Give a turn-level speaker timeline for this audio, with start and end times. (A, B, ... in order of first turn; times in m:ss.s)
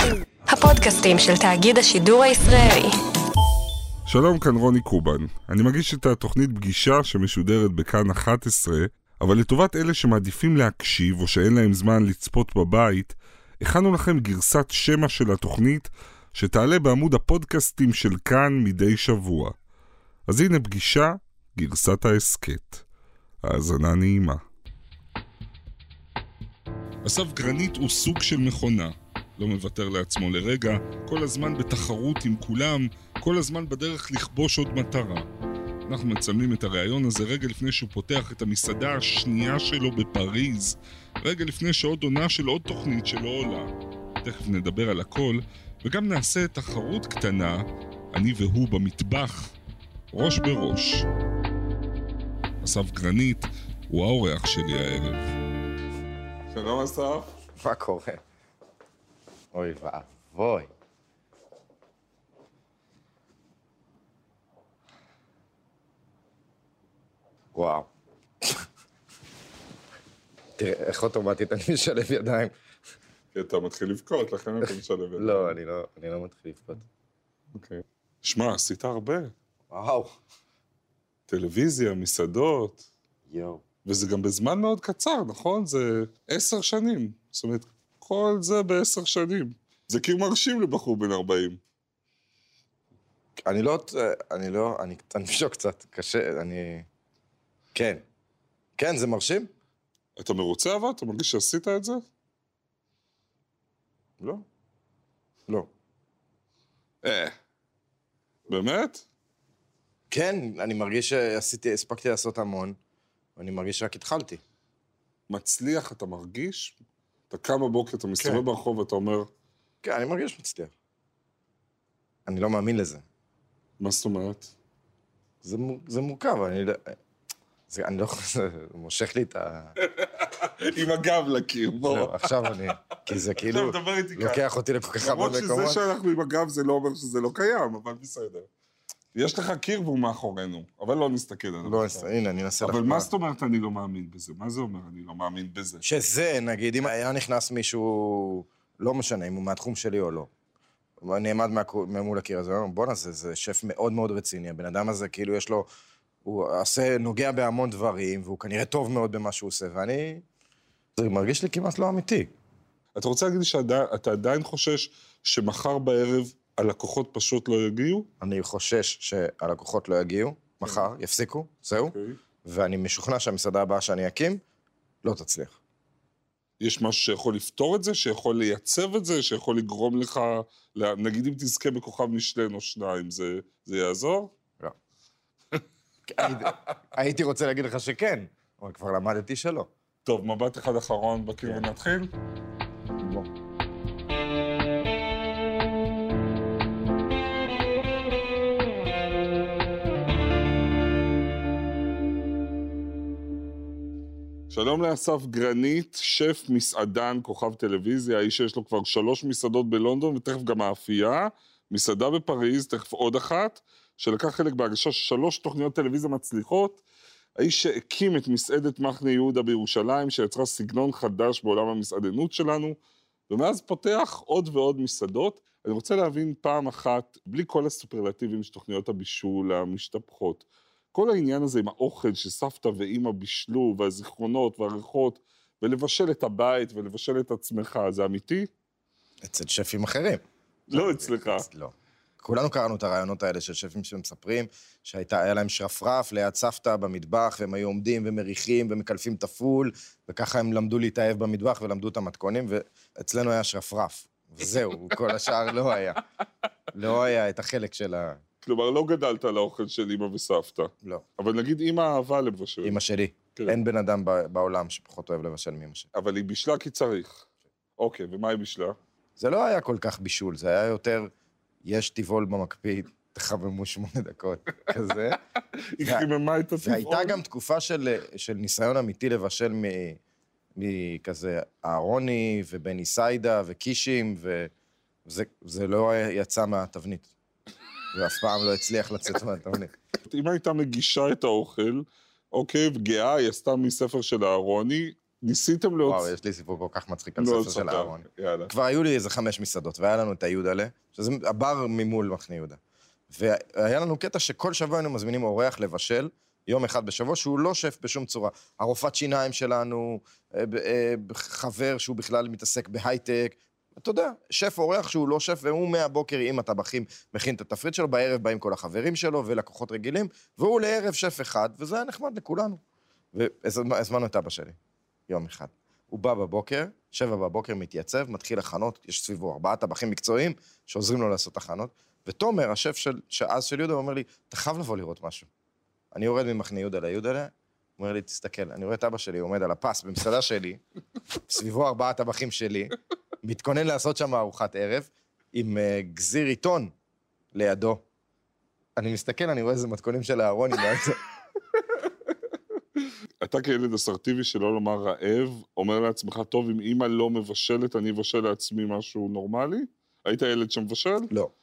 0:00.5-0:03.0 A
0:04.0-0:19.5 B
0:20.3-0:22.8 B
0:23.4-0:24.4 B
0:27.0-0:35.3 B
0:35.8-0:43.7 B
0:44.2-0:49.5 B
0:50.1-0:51.0 B
0:52.6-0:55.3 B
0:56.5-0:57.3 B
0:57.6-0:58.2 C
0:59.5-1:00.7 C
1:07.5-1:07.9 C
1:10.6-1:12.5 C
1:13.3-1:15.6 B
1:15.2-1:16.8 C
1:17.5-1:19.3 B
1:19.7-1:20.1 C
1:21.3-1:22.8 B
1:23.3-1:23.6 C
1:23.8-1:31.6 B
1:33.4-1:36.9 C
1:37.7-1:38.0 C
1:38.8-1:39.5 C
1:40.2-1:42.0 B
1:47.0-1:47.4 B
1:48.5-1:49.0 B
1:50.1-1:52.8 C
1:53.4-1:54.4 C
1:55.3-1:56.8 B
1:57.3-1:59.3 B
1:59.8-2:00.7 C
2:02.3-2:03.0 C
2:03.8-2:04.5 B
2:05.4-2:07.0 C
2:07.7-2:09.8 C
2:09.8-2:14.4 B
2:11.9-2:15.8 C
2:15.0-2:18.5 B
2:19.1-2:22.1 B
2:21.6-2:23.1 C
2:22.6-2:25.8 B
2:25.8-2:30.3 C
2:31.0-2:35.7 C
2:36.2-2:40.2 C
2:41.0-2:42.3 C
2:43.0-2:48.1 B
2:48.2-2:54.4 C
2:51.9-2:52.2 B
2:55.0-2:55.6 C
2:56.6-3:04.3 B
3:06.1-3:09.7 C
3:06.2-3:06.5 B
3:10.0-3:12.1 B
3:13.0-3:13.3 C
3:24.5-3:36.8 B
3:37.4-3:42.8 B
3:43.3-3:58.5 B
3:59.2-4:16.0 C
4:00.7-4:01.5 B
4:16.7-4:18.2 C
4:18.4-4:22.8 B
4:22.6-4:25.9 C
4:25.9-4:27.2 B
4:27.8-4:28.8 B
4:29.2-4:31.1 C
4:31.6-4:35.2 C
4:35.6-4:37.2 B
4:35.8-4:36.1 C
4:36.6-4:40.0 C
4:40.6-4:44.5 C
4:45.0-4:47.1 C
4:47.9-4:49.7 C
4:50.0-4:56.1 B
4:55.8-5:02.6 C
4:57.2-4:58.5 B
5:03.1-5:22.6 C
5:23.1-5:24.6 C
5:25.1-5:35.3 C
5:35.9-5:40.6 C
5:41.3-5:46.7 C
5:47.3-5:47.8 C
5:48.8-5:51.0 C
5:53.2-6:01.1 B